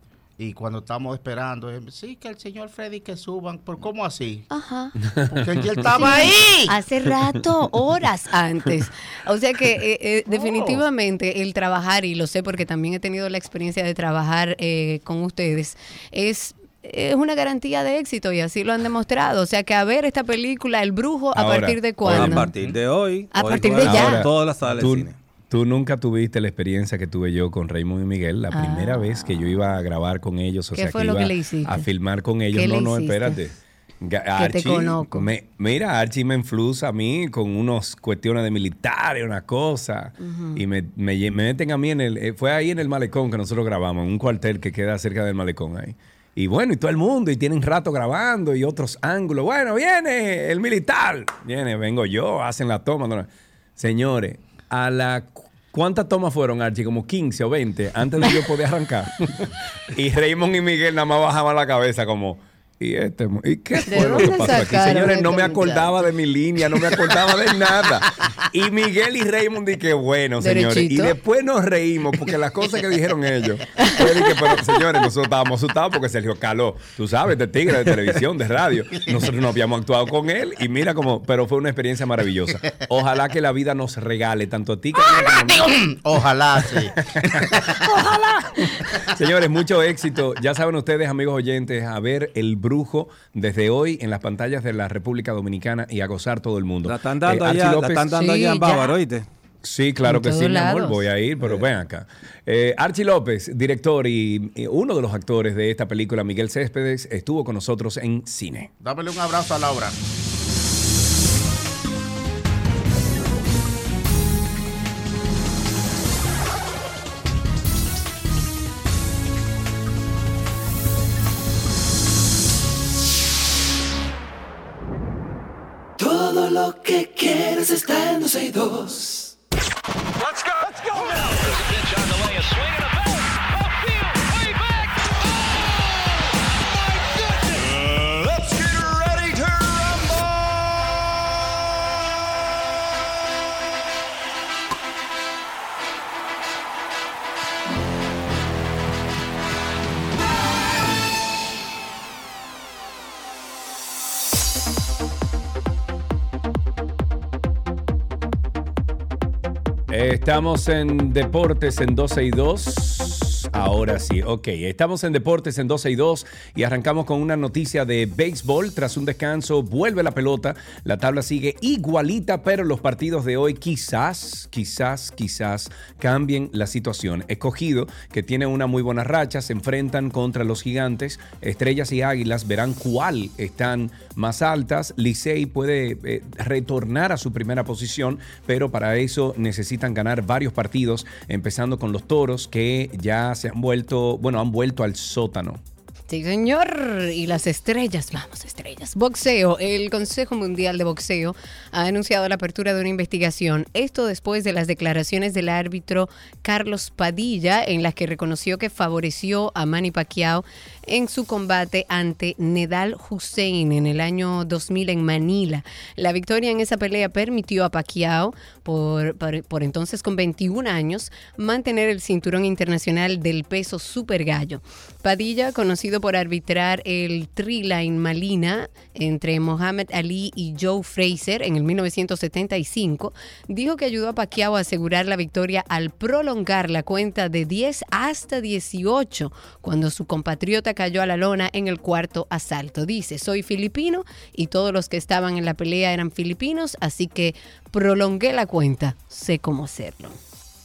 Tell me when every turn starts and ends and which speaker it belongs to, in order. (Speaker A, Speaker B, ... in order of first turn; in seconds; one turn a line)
Speaker A: 0.4-4.5
Speaker B: 4.5-4.9
Speaker A: 5.2-6.8
Speaker B: 5.9-22.5
Speaker A: 10.3-10.8
Speaker C: 21.3-22.8
Speaker D: 22.0-25.2
Speaker B: 23.3-24.3
Speaker C: 23.8-85.7
Speaker B: 28.5-29.5
Speaker B: 30.7-31.9
Speaker B: 32.5-33.4
Speaker B: 34.4-35.3
Speaker B: 40.2-40.6
Speaker B: 63.9-66.1
Speaker B: 70.4-71.1
Speaker B: 73.8-74.5
Speaker A: 85.0-88.2
Speaker C: 87.2-98.1
Speaker D: 96.8-99.2
Speaker B: 98.1-98.9
Speaker C: 99.6-108.7
Speaker B: 100.0-101.0
Speaker A: 108.8-110.0
Speaker E: 126.0-129.3
Speaker E: 131.8-132.9
Speaker C: 159.9-195.6
Speaker B: 196.1-250.1